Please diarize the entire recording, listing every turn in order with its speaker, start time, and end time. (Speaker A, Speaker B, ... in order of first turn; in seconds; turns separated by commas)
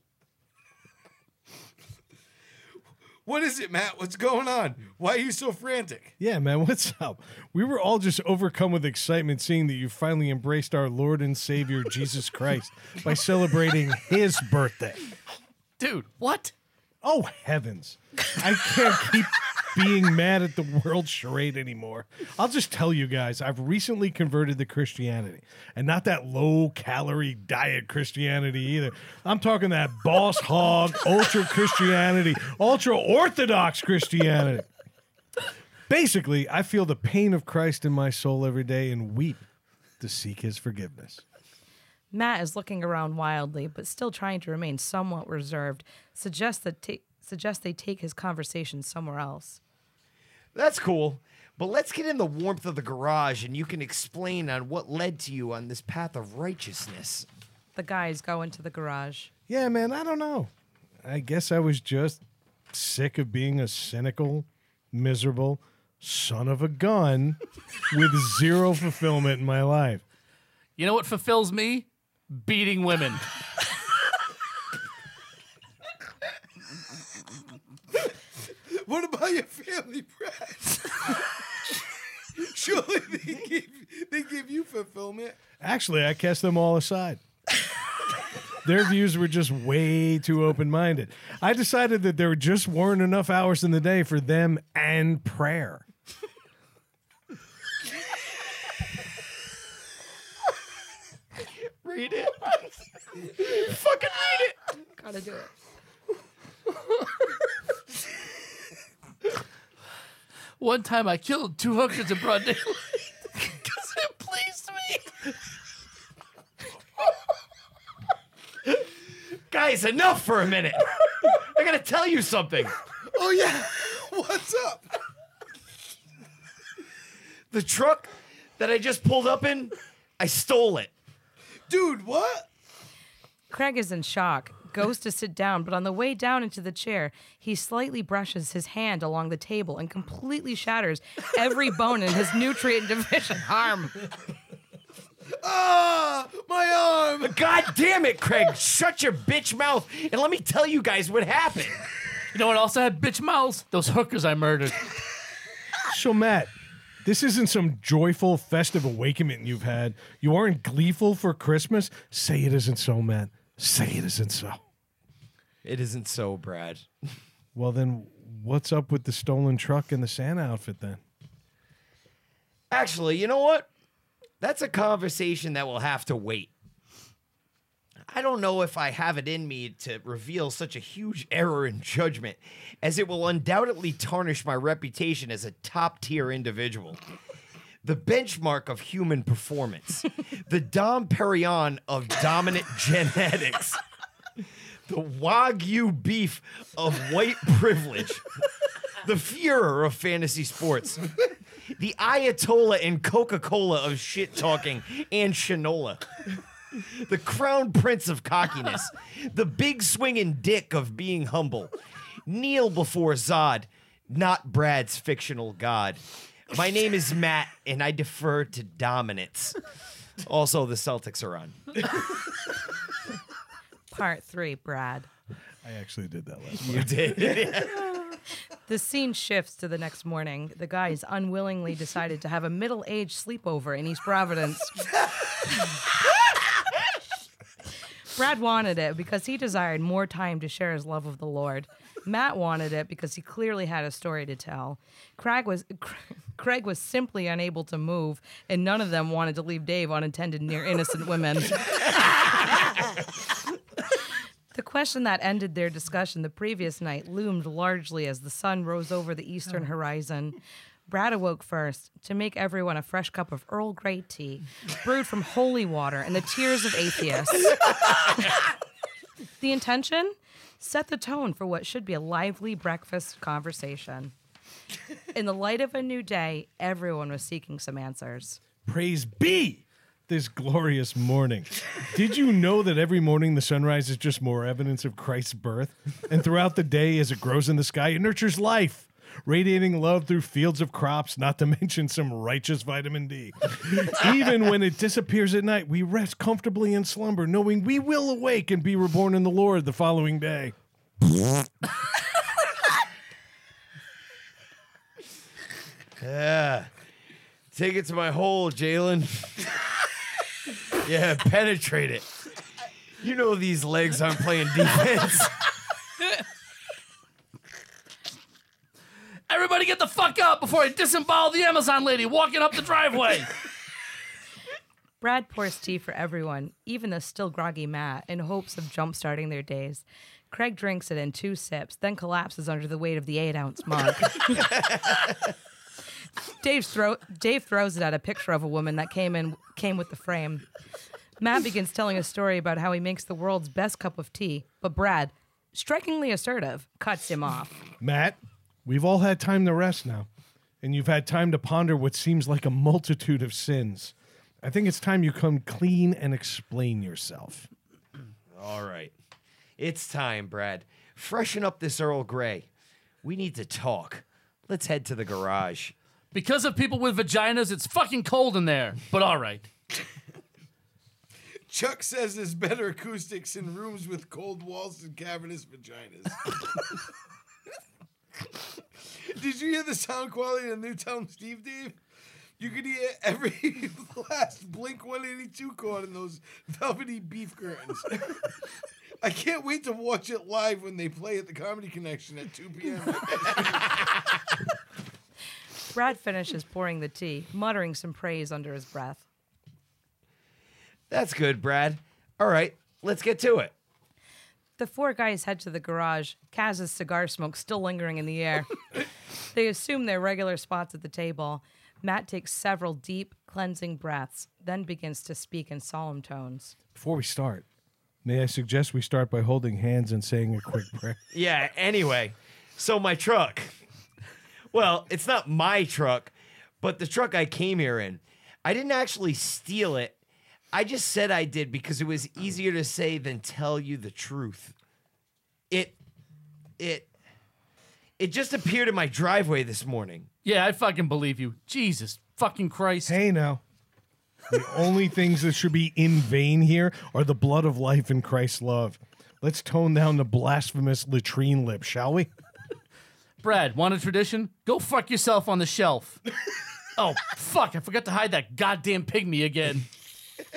Speaker A: 3.2-6.2, Speaker B: 6.2-15.1, Speaker C: 15.8-16.5, Speaker B: 17.0-34.7, Speaker B: 35.9-39.4, Speaker B: 40.0-41.2, Speaker D: 42.1-49.6, Speaker E: 50.5-57.3, Speaker D: 57.8-59.3, Speaker B: 59.5-60.5, Speaker B: 61.0-67.4, Speaker B: 67.9-70.0, Speaker C: 70.8-73.2, Speaker A: 78.7-81.2, Speaker A: 82.4-85.4, Speaker B: 85.6-87.2, Speaker B: 88.6-95.8, Speaker E: 101.8-104.6, Speaker D: 105.0-105.5, Speaker C: 110.6-115.3, Speaker E: 119.5-122.8, Speaker A: 123.1-124.9, Speaker E: 127.5-130.9, Speaker A: 131.7-132.5, Speaker D: 133.5-144.0, Speaker A: 145.3-147.4, Speaker E: 147.2-151.8, Speaker C: 152.3-154.9, Speaker B: 155.9-156.5, Speaker B: 157.0-164.6, Speaker E: 165.6-166.9, Speaker B: 167.6-171.0, Speaker E: 172.7-173.7, Speaker E: 174.4-176.5, Speaker E: 178.1-187.0, Speaker E: 187.8-193.8, Speaker E: 194.9-198.3, Speaker E: 199.0-201.1, Speaker E: 201.7-206.2, Speaker E: 206.7-211.7, Speaker E: 212.3-219.6, Speaker E: 220.2-221.8, Speaker D: 223.9-225.1, Speaker B: 225.6-227.6, Speaker E: 226.6-228.0, Speaker D: 228.7-234.9, Speaker D: 238.1-251.7, Speaker D: 254.5-260.4, Speaker D: 260.9-268.4, Speaker D: 269.4-274.1, Speaker D: 275.1-278.4, Speaker B: 278.6-300.5, Speaker E: 306.0-306.7, Speaker E: 307.5-309.5, Speaker E: 310.8-312.1, Speaker E: 313.0-315.4, Speaker C: 319.3-323.3, Speaker D: 325.0-334.8, Speaker D: 336.3-340.4, Speaker D: 341.2-347.6, Speaker B: 347.8-350.1, Speaker B: 350.6-357.5, Speaker E: 358.3-358.9, Speaker E: 359.6-362.5, Speaker E: 363.0-365.7, Speaker C: 366.1-369.5, Speaker A: 371.5-376.3, Speaker A: 378.9-381.8, Speaker A: 382.4-388.2, Speaker A: 389.0-393.7, Speaker D: 395.7-399.0, Speaker E: 400.9-403.5, Speaker D: 404.6-408.6, Speaker D: 409.3-416.6, Speaker B: 416.8-417.4, Speaker B: 418.0-421.0, Speaker E: 421.1-423.5, Speaker E: 424.5-430.0, Speaker E: 430.5-434.5, Speaker E: 435.5-435.8, Speaker E: 436.6-436.9, Speaker E: 438.0-440.1, Speaker C: 440.2-443.0, Speaker B: 442.9-443.4, Speaker B: 444.3-452.1, Speaker C: 453.2-456.0, Speaker C: 456.8-459.7